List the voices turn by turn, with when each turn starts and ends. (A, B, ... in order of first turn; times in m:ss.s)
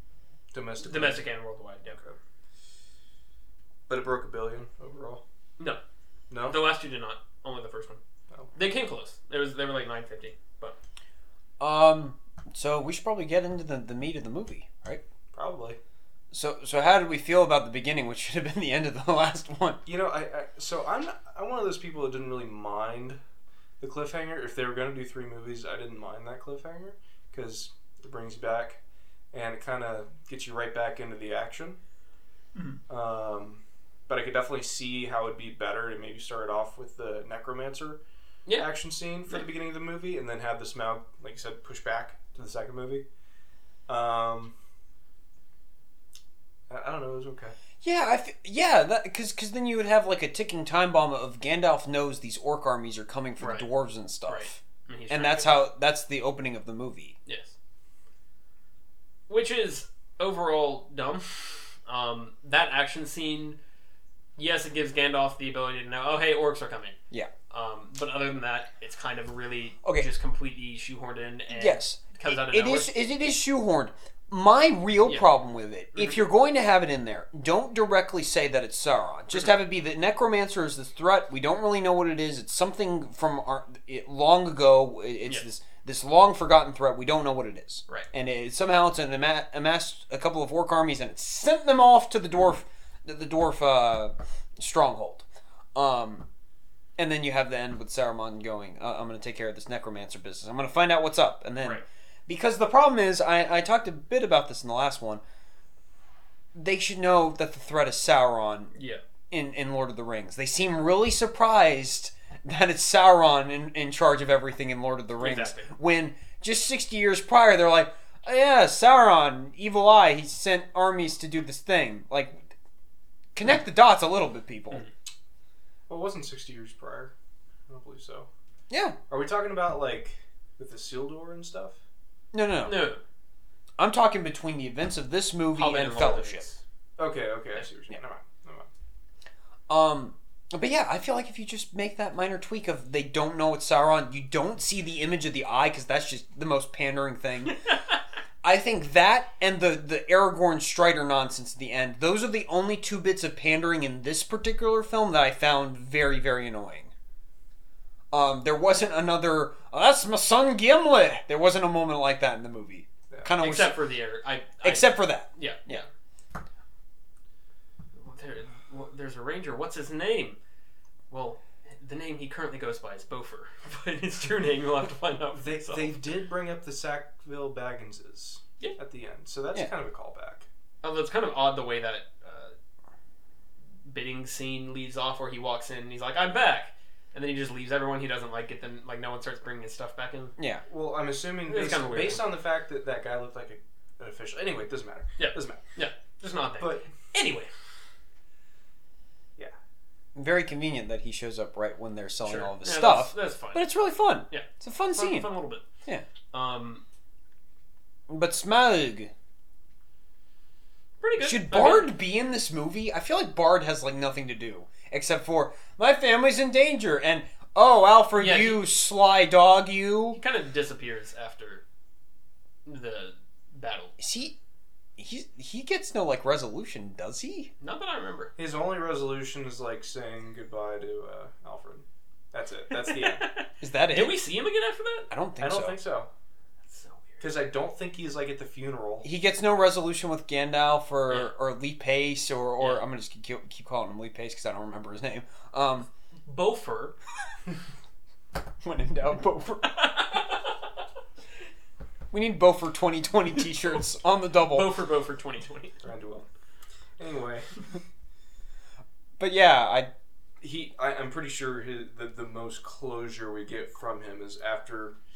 0:00.5-0:01.3 A
0:00.8-0:02.0 B
0:03.9-0:05.2 A
0:06.3-0:06.6 A
0:06.4-0:08.0 B
0:08.6-0:10.8 B
0:11.6-0:15.0 C
0:15.3-0:15.8 A
0:16.3-0:19.8 C
0:19.9-0:23.2 A
0:23.8-0:28.8 A
0:29.3-0:31.8 A
0:32.9-0:38.0 A
0:38.6-0:43.0 A
0:43.9-0:44.5 A
0:46.7-0:47.6 A
0:47.8-0:57.2 C
0:53.4-0:53.7 B
0:54.3-0:55.6 B
0:57.3-0:57.6 B
0:59.3-1:03.6 B
1:04.4-1:07.0 B
1:07.5-1:12.9 B
1:11.5-1:36.3 C
1:15.9-1:16.2 B
1:37.0-1:45.2 C
1:46.6-1:48.7 C
1:48.7-1:49.0 B
1:49.3-2:02.4 C
1:55.2-1:55.7 B
2:03.4-2:04.8 C
2:05.9-2:07.1 A
2:07.7-2:08.3 A
2:08.7-2:09.0 C
2:09.1-2:11.8 A
2:12.3-2:12.9 C
2:12.6-2:13.0 B
2:13.8-2:16.5 C
2:15.6-2:16.6 B
2:17.0-2:18.7 A
2:19.7-2:27.6 C
2:27.7-2:28.0 B
2:28.4-2:36.9 C
2:38.1-2:43.8 C
2:43.4-2:45.9 B
2:44.6-2:45.8 C
2:48.0-2:50.4 B
2:51.1-2:56.1 B
2:55.3-3:00.5 A
3:00.8-3:02.5 B
3:03.8-3:10.3 B
3:10.4-3:10.6 C
3:10.7-3:15.6 A
3:11.5-3:12.2 B
3:15.2-3:17.5 B
3:16.6-3:16.9 A
3:20.2-3:25.3 C
3:22.2-3:23.7 B
3:24.3-3:25.6 B
3:26.3-3:26.8 B
3:28.1-3:29.1 C
3:31.0-3:31.9 B
3:31.2-3:40.2 C
3:38.2-3:38.6 B
3:40.1-3:41.6 B
3:42.7-3:43.9 B
3:44.0-3:44.4 C
3:45.0-3:47.5 C
3:47.6-3:48.3 B
3:48.4-3:53.3 A
3:52.7-3:55.1 B
3:53.6-3:54.2 C
3:55.1-3:55.8 C
3:55.4-3:56.1 A
3:56.7-3:57.3 B
3:57.2-3:59.1 A
3:59.0-4:05.9 C
4:02.6-4:02.8 B
4:06.3-4:07.0 B
4:08.6-4:09.9 C
4:09.8-4:10.5 B
4:12.1-4:14.8 C
4:14.5-4:15.8 B
4:15.8-4:16.3 A
4:17.0-4:17.5 A
4:19.2-4:19.9 C
4:20.4-4:25.0 A